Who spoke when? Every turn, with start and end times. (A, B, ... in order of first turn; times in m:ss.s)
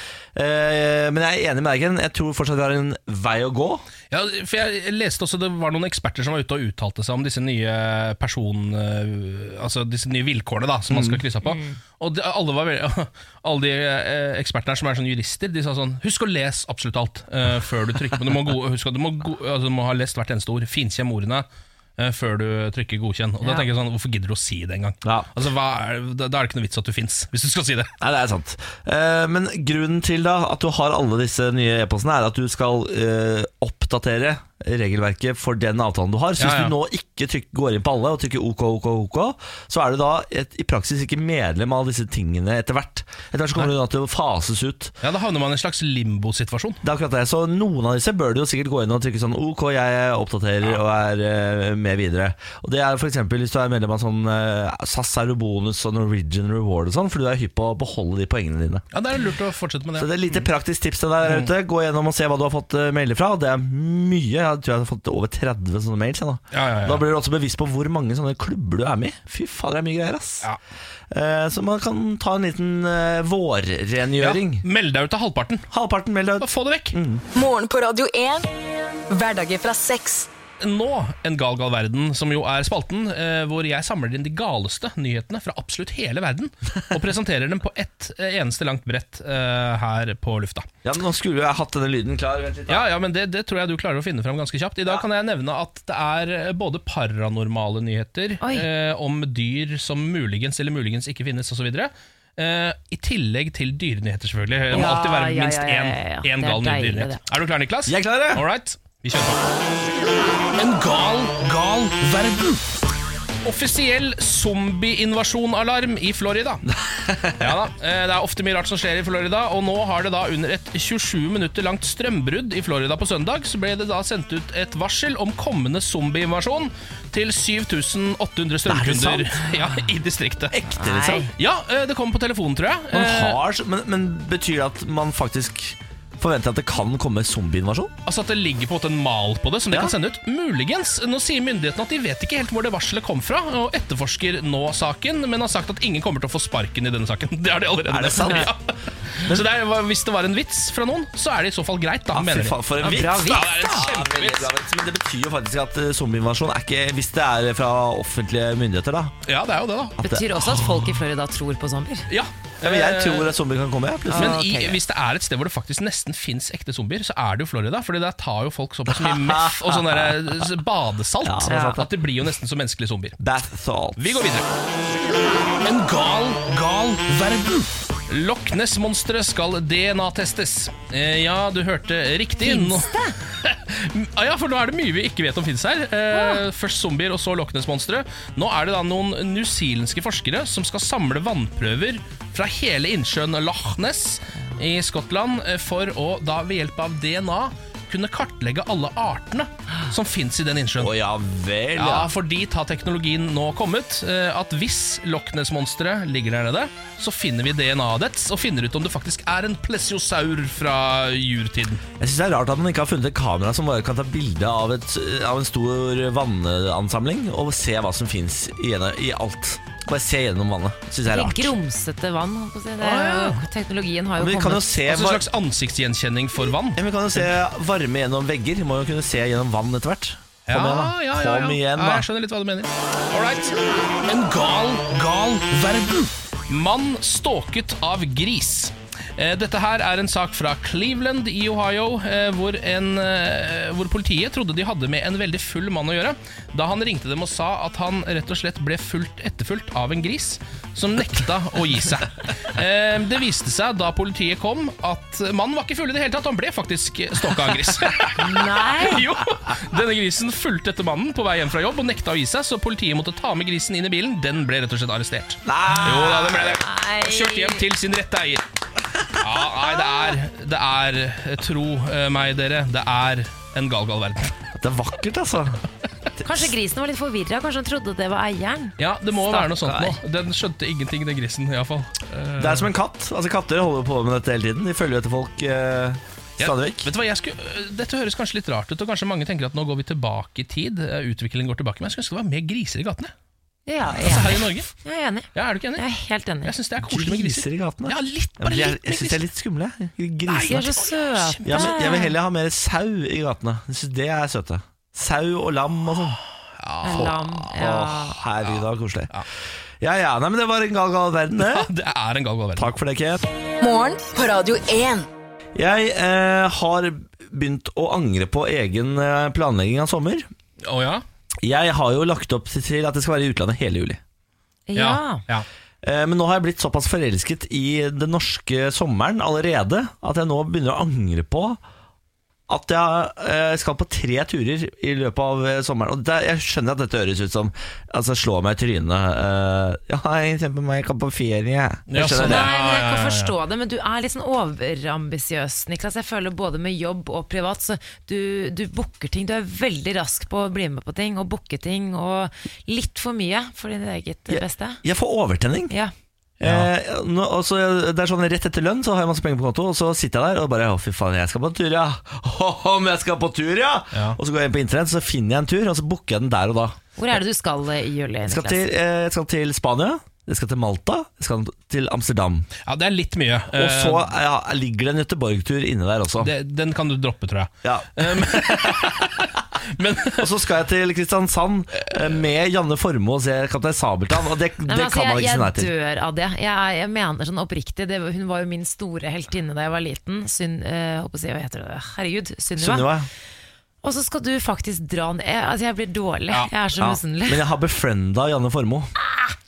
0:00.3-0:03.8 A
0:04.1-0:21.4 B
0:10.9-0:11.2 A
0:11.4-0:11.8 C
0:22.0-0:27.9 B
0:25.0-0:25.3 A
0:28.0-0:44.9 A
0:36.4-0:36.7 B
0:45.0-0:46.8 B
0:46.8-0:58.8 A
0:58.9-1:00.5 B
1:00.0-1:10.5 A
1:06.5-1:07.0 B
1:11.1-1:14.6 A
1:14.2-1:15.7 B
1:15.7-1:17.2 A
1:16.4-1:17.0 B
1:17.3-1:18.5 D
1:19.1-1:20.3 D
1:20.6-1:30.7 B
1:30.8-1:32.9 A
1:32.7-1:49.5 B
1:38.4-1:38.7 C
1:44.7-1:47.2 C
1:47.8-1:48.4 A
1:50.6-1:52.8 B
1:53.4-1:56.6 B
1:56.7-1:57.5 A
1:57.4-2:10.5 B
2:08.6-2:09.4 A
2:10.5-2:11.3 A
2:10.7-2:11.3 C
2:11.4-2:13.4 B
2:12.9-2:17.9 A
2:18.0-2:34.5 B
2:27.9-2:28.5 A
2:32.1-2:39.1 A
2:32.8-2:33.4 C
2:39.2-2:40.0 B
2:40.0-2:40.9 A
2:40.0-2:42.1 C
2:42.1-2:43.3 B
2:42.6-2:44.4 A
2:44.1-2:44.8 C
2:44.1-2:53.2 B
2:48.9-2:50.4 A
2:51.2-2:51.9 A
2:51.5-2:51.8 C
2:53.2-2:54.2 A
2:54.0-2:54.5 B
2:55.6-3:20.9 B
3:02.4-3:03.1 C
3:06.1-3:06.4 C
3:20.8-3:22.1 A
3:21.7-3:31.8 B
3:32.0-3:41.5 A
3:41.1-3:44.7 C
3:42.8-3:43.4 B
3:44.2-3:45.2 A
3:44.8-3:46.8 B
3:46.7-3:52.0 A
3:50.5-4:28.4 B
4:18.2-4:19.0 C
4:25.4-4:26.6 A
4:26.6-4:27.6 C
4:29.2-4:34.3 B
4:34.6-4:35.6 A
4:36.2-4:39.5 C
4:38.8-4:42.7 B
4:39.6-4:40.0 A
4:42.4-4:46.9 A
4:46.4-4:53.1 B
4:53.7-4:56.5 C
4:54.0-4:54.7 B
4:55.3-4:55.8 B
4:56.4-4:59.2 B
4:56.8-5:00.7 A
5:00.3-5:01.9 B
5:00.4-5:02.1 C
5:01.4-5:06.2 A
5:06.6-5:07.2 B
5:06.8-5:08.2 C
5:06.8-5:09.1 A
5:08.5-5:09.2 B
5:09.8-5:11.7 A
5:11.4-5:12.7 B
5:12.6-5:13.2 A
5:13.6-5:15.1 D
5:15.5-5:20.2 A
5:20.6-5:21.0 B
5:21.4-5:24.0 A
5:24.7-5:25.2 C
5:24.7-5:25.5 B
5:25.8-5:31.6 A
5:32.5-5:42.5 A
5:41.9-5:43.3 B
5:42.2-5:54.8 C
5:54.3-5:55.7 A
5:56.4-6:06.8 A
5:56.4-5:56.7 B
6:03.9-6:04.2 B
6:07.0-6:08.6 C
6:08.2-6:12.5 A
6:12.6-6:14.1 B
6:13.5-6:16.3 A
6:16.2-6:20.3 B
6:17.6-6:19.2 A
6:20.1-6:25.7 A
6:21.8-6:22.1 B
6:24.7-6:32.9 C
6:32.6-6:33.1 A
6:33.8-6:37.4 C
6:36.8-6:38.9 A